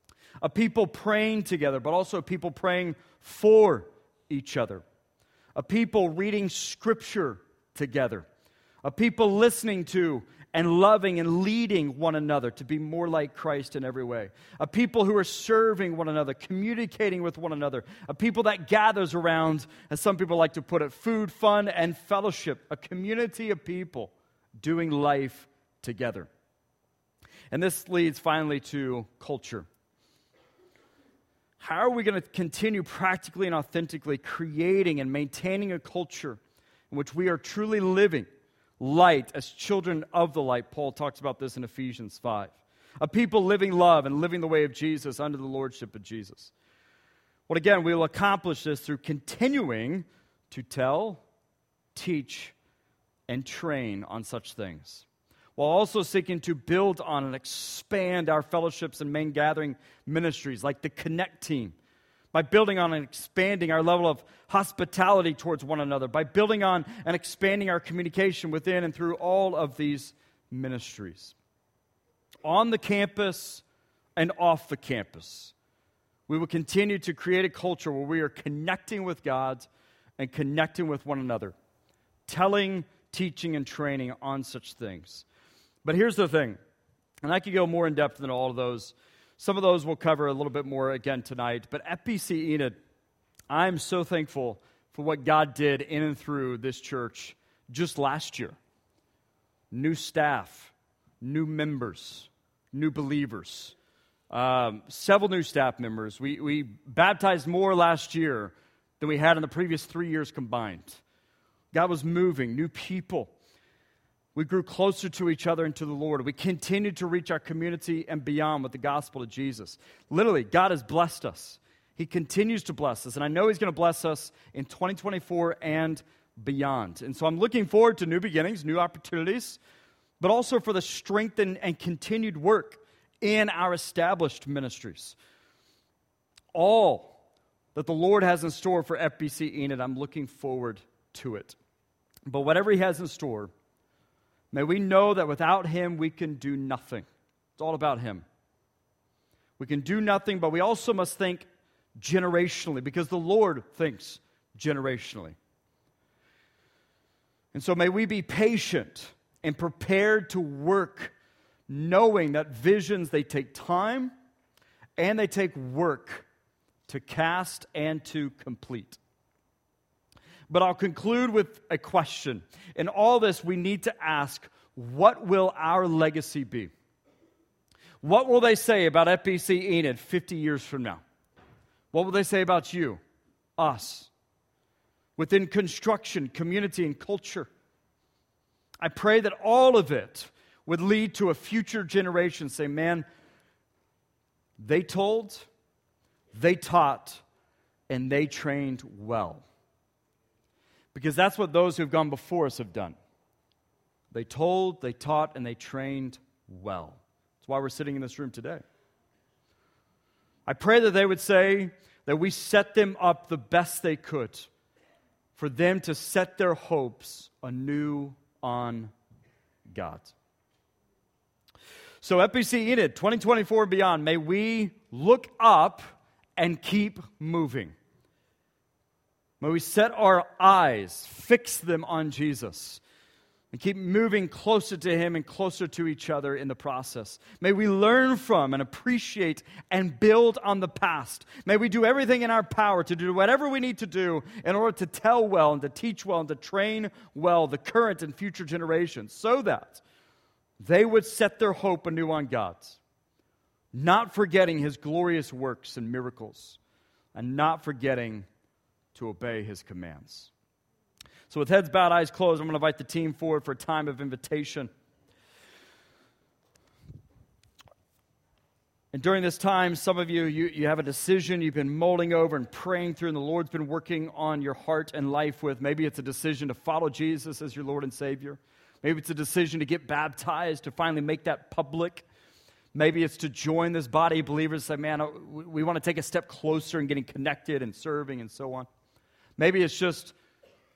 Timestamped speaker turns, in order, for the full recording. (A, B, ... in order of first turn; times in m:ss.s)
0:00.4-0:04.8 A
0:05.6-0:08.3 A
0:08.8-0:26.3 A
0:27.5-0:29.7 A
0:31.6-0:38.3 A
0:38.8-0:46.5 A
0:47.5-0:51.2 A
0:51.9-0:52.6 A
0:53.3-1:01.8 A
1:02.3-1:11.4 A
1:12.4-1:13.6 A
1:14.2-1:15.5 A
1:16.3-1:21.6 A
1:22.3-1:25.3 A
1:25.8-1:26.6 A
1:27.2-1:32.8 A
1:33.5-1:38.6 A
1:39.7-1:43.8 A
1:44.3-1:51.0 A
1:51.7-1:53.3 A
1:54.4-2:09.6 A
2:10.2-2:15.2 A
2:16.5-2:17.2 A
2:17.8-2:21.6 A
2:22.3-2:23.5 A
2:24.5-2:28.2 A
2:29.6-2:31.5 A
2:32.0-2:35.4 A
2:37.5-2:41.1 A
2:41.7-2:44.1 A
2:45.0-2:46.3 A
2:46.9-2:49.0 A
2:50.5-2:56.7 A
2:58.0-3:01.0 A
3:01.9-3:03.0 A
3:03.6-3:04.1 A
3:05.2-3:07.5 A
3:08.8-3:13.1 A
3:14.6-3:15.5 A
3:16.3-3:17.2 A
3:17.9-3:19.4 A
3:20.9-3:23.0 A
3:24.1-3:28.6 A
3:30.5-3:34.5 A
3:35.4-3:38.9 A
3:39.7-3:40.1 A
3:42.0-3:45.8 A
3:46.4-3:47.8 A
3:49.4-3:52.8 A
3:53.5-4:09.8 A
4:10.6-4:12.8 A
4:13.7-4:16.6 A
4:17.2-4:18.3 A
4:18.9-4:20.3 A
4:21.3-4:24.7 A
4:28.9-4:42.0 A
4:42.7-4:48.7 A
4:49.4-4:50.2 A